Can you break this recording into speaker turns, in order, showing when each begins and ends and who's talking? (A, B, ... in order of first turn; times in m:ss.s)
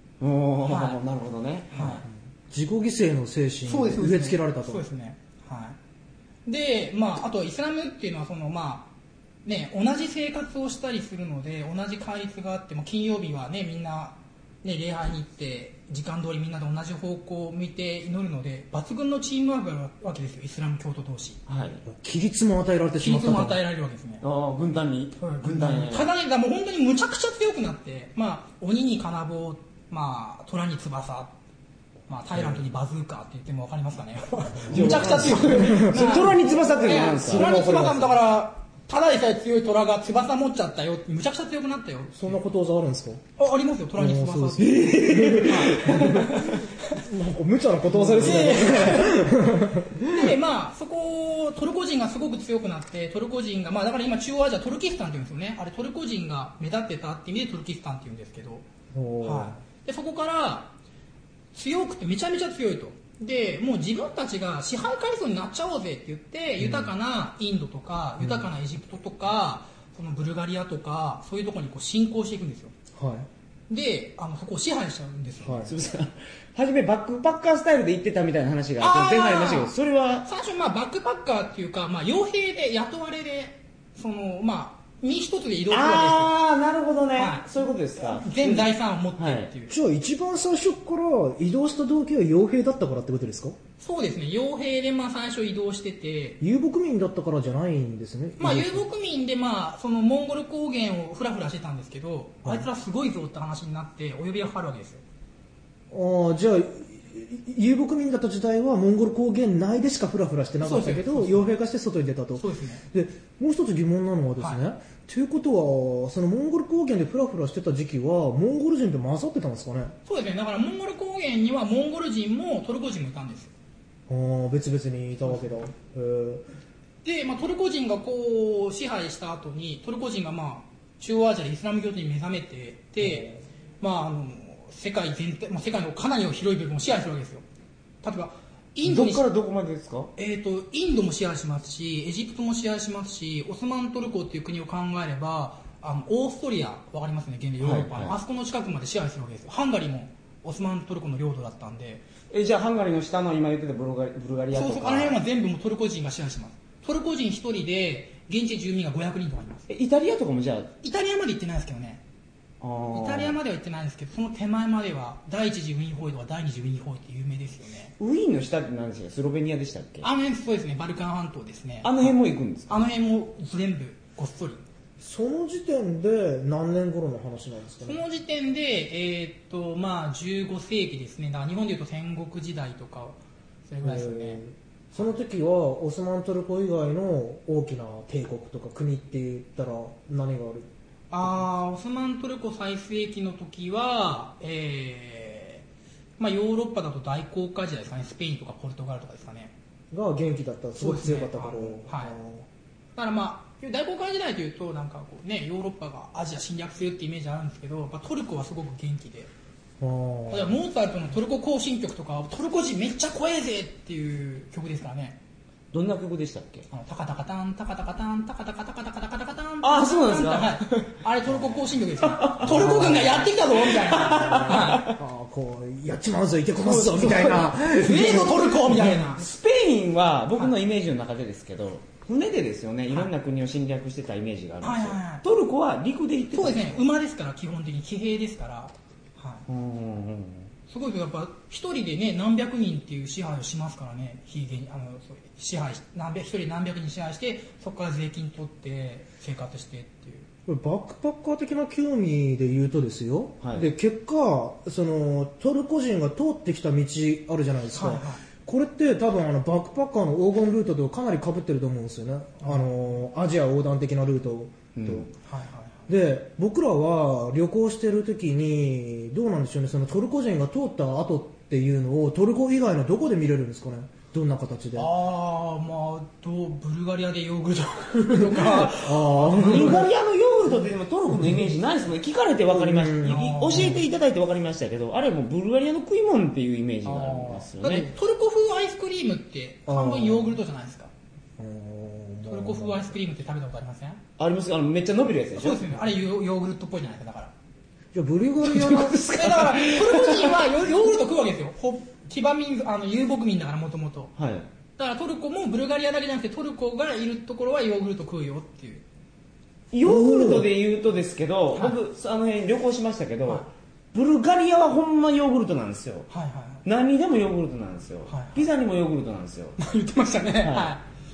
0:00.2-0:02.0 A
0:00.6-0:01.0 B
0:01.7-0:02.0 B
0:02.5-0:04.8 C
0:03.7-0:05.8 B
0:06.5-0:08.9 B
0:09.4-0:21.4 B
0:21.5-0:21.8 A
0:21.9-0:23.6 C
0:23.0-0:24.2 B
0:24.2-0:26.1 A
0:25.2-0:31.3 B
0:32.1-0:42.4 B
0:34.7-0:37.8 A
0:34.7-0:36.2 C
0:37.1-0:38.2 C
0:42.1-0:43.2 C
0:43.4-0:47.0 B
0:44.0-0:50.4 C
0:44.6-0:46.6 A
0:48.0-0:58.6 B
0:48.1-0:48.6 A
0:58.9-0:59.6 C
0:59.2-1:00.7 B
1:01.5-1:12.7 B
1:06.6-1:06.9 C
1:08.2-1:08.5 C
1:13.0-1:13.3 C
1:13.7-1:15.7 B
1:15.4-1:15.7 C
1:15.7-1:20.3 A
1:18.8-1:19.7 B
1:20.2-1:26.3 B
1:25.7-1:29.5 A
1:27.2-1:29.7 B
1:29.7-1:33.6 C
1:33.8-1:36.4 B
1:36.4-1:38.8 C
1:38.4-1:45.0 B
1:45.9-2:00.0 C
1:50.6-1:51.5 B
1:52.4-1:52.8 B
2:00.1-2:03.5 B
2:04.1-2:06.4 C
2:07.0-2:17.4 B
2:13.0-2:13.4 C
2:18.0-2:19.2 B
2:18.8-2:20.1 A
2:20.2-2:32.0 B
2:27.6-2:28.2 A
2:32.3-2:35.2 A
2:34.5-2:39.7 B
2:39.7-2:40.7 A
2:40.8-2:42.0 B
2:42.6-2:43.4 A
2:42.9-2:47.9 B
2:48.0-2:50.1 A
2:50.0-2:52.2 B
2:51.8-2:52.7 A
2:52.7-2:54.6 B
2:55.0-2:58.0 C
2:57.8-3:04.4 B
3:03.8-3:10.7 C
3:11.1-3:15.6 B
3:16.2-3:19.5 B
3:19.9-3:22.5 C
3:20.8-3:22.2 B
3:23.0-3:29.3 B
3:29.8-3:30.6 C
3:30.3-3:35.2 B
3:35.7-3:36.7 A
3:36.7-3:44.9 B
3:39.6-3:41.0 A
3:42.0-3:45.0 A
3:42.5-3:43.1 C
3:44.2-3:49.1 C
3:46.6-3:48.1 A
3:47.7-3:49.2 B
3:49.1-3:56.8 A
3:54.6-3:55.2 B
3:56.3-3:59.4 B
3:59.5-4:00.5 A
4:00.7-4:10.3 B
4:10.5-4:25.1 C
4:13.4-4:13.7 A
4:17.7-4:18.2 B
4:24.8-4:25.1 A
4:25.2-4:25.8 B
4:25.9-4:34.9 C
4:34.8-4:39.8 B
4:38.1-4:39.9 C
4:39.3-4:47.9 A
4:42.5-4:43.8 C
4:43.0-4:43.8 B
4:46.9-4:47.5 C
4:47.6-4:50.9 B
4:49.7-4:50.4 C
4:51.4-4:52.9 C
4:52.3-4:54.0 B
4:54.2-4:55.8 A
4:55.4-4:57.3 B
4:57.9-4:59.1 C
4:58.4-5:00.4 A
4:58.9-5:04.1 B
5:04.2-5:04.5 A
5:04.8-5:08.8 B
5:09.7-5:16.1 A
5:09.8-5:10.5 C
5:16.1-5:16.6 B
5:16.6-5:19.6 A
5:18.1-5:18.5 B
5:19.6-5:20.8 B
5:20.4-5:20.8 A